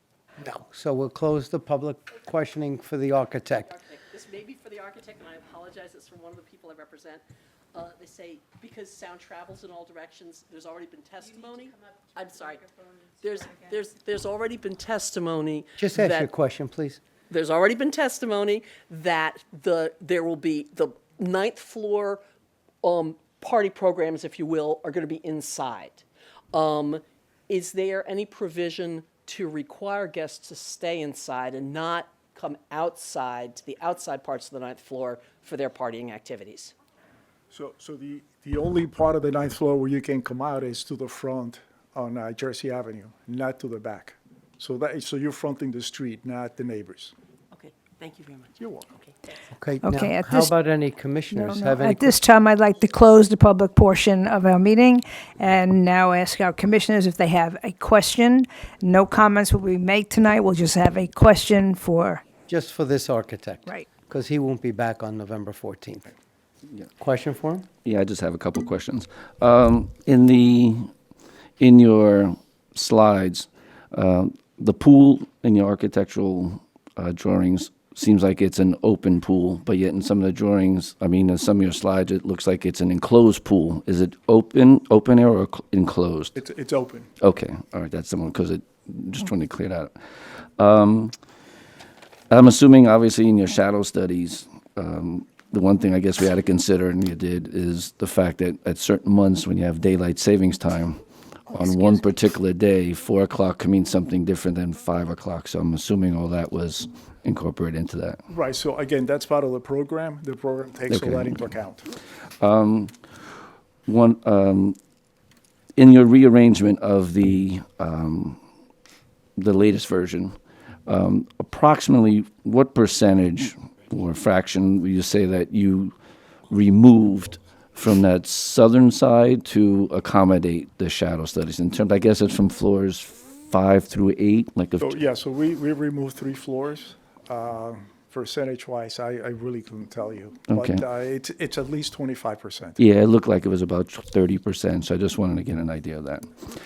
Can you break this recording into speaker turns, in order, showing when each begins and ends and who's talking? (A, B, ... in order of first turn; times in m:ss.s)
0:00.4-0:03.7 A
0:03.7-0:16.3 B
0:15.8-0:17.0 A
0:17.3-0:22.2 B
0:22.8-0:36.7 B
0:37.5-0:47.1 C
0:47.5-0:49.2 B
0:48.6-0:48.9 C
0:49.6-0:52.2 A
0:49.8-0:50.5 D
0:51.3-1:02.2 D
1:02.5-1:06.1 A
1:07.0-1:07.7 A
1:07.8-1:10.9 E
1:11.6-1:26.4 E
1:26.4-1:27.1 C
1:27.2-1:29.9 E
1:30.6-1:31.2 E
1:32.3-1:48.2 E
1:48.3-1:51.9 C
1:50.9-1:51.4 E
1:52.4-1:52.9 E
1:53.9-1:54.8 E
1:55.8-1:58.4 E
1:59.4-2:00.3 E
2:00.9-2:05.9 E
2:06.5-2:15.0 E
2:14.8-2:22.8 C
2:20.5-2:20.8 E
2:22.8-2:26.3 E